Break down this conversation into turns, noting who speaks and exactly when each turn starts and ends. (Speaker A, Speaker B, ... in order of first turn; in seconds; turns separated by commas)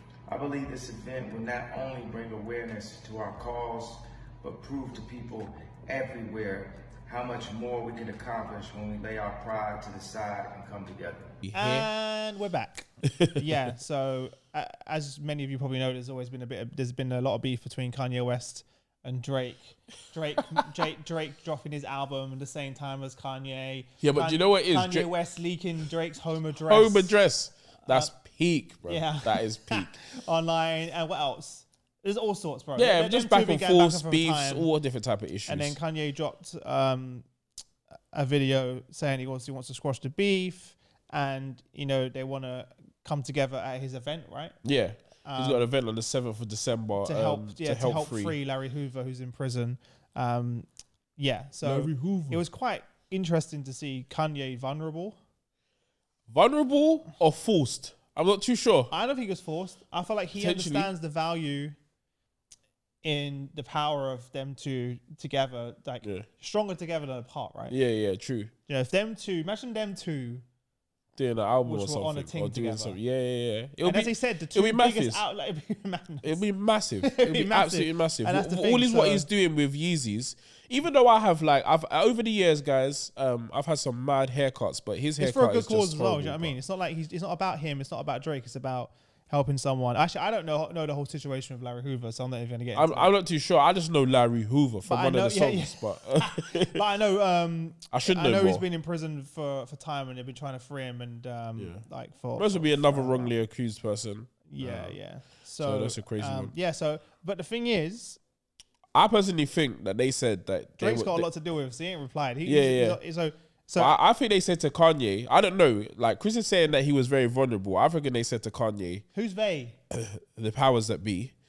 Speaker A: 0.3-11.2, Speaker B: 11.4-11.9, Speaker C: 11.5-27.2, Speaker B: 13.1-13.5, Speaker B: 24.0-25.1, Speaker B: 26.6-30.0, Speaker C: 27.9-28.1, Speaker C: 28.9-34.7, Speaker B: 32.8-35.8, Speaker C: 35.5-37.2, Speaker C: 38.1-44.6, Speaker B: 44.6-48.3, Speaker C: 45.2-45.6, Speaker C: 47.0-55.2, Speaker B: 51.6-52.4, Speaker B: 56.3-58.9, Speaker C: 58.9-61.7, Speaker B: 60.4-60.9, Speaker C: 63.0-67.8, Speaker B: 67.7-68.5, Speaker C: 68.7-70.4, Speaker B: 71.2-75.2, Speaker C: 71.6-73.0, Speaker C: 73.8-76.4, Speaker B: 76.2-86.5, Speaker C: 77.0-79.3, Speaker C: 85.2-93.1, Speaker B: 92.7-96.8, Speaker C: 94.8-103.3, Speaker B: 97.9-98.6, Speaker B: 101.6-101.8, Speaker B: 102.3-105.0, Speaker C: 104.5-108.2, Speaker B: 105.6-106.5, Speaker B: 108.9-111.3, Speaker C: 110.8-113.9, Speaker B: 112.4-113.0, Speaker B: 113.8-119.0, Speaker C: 119.1-119.8, Speaker B: 119.9-121.3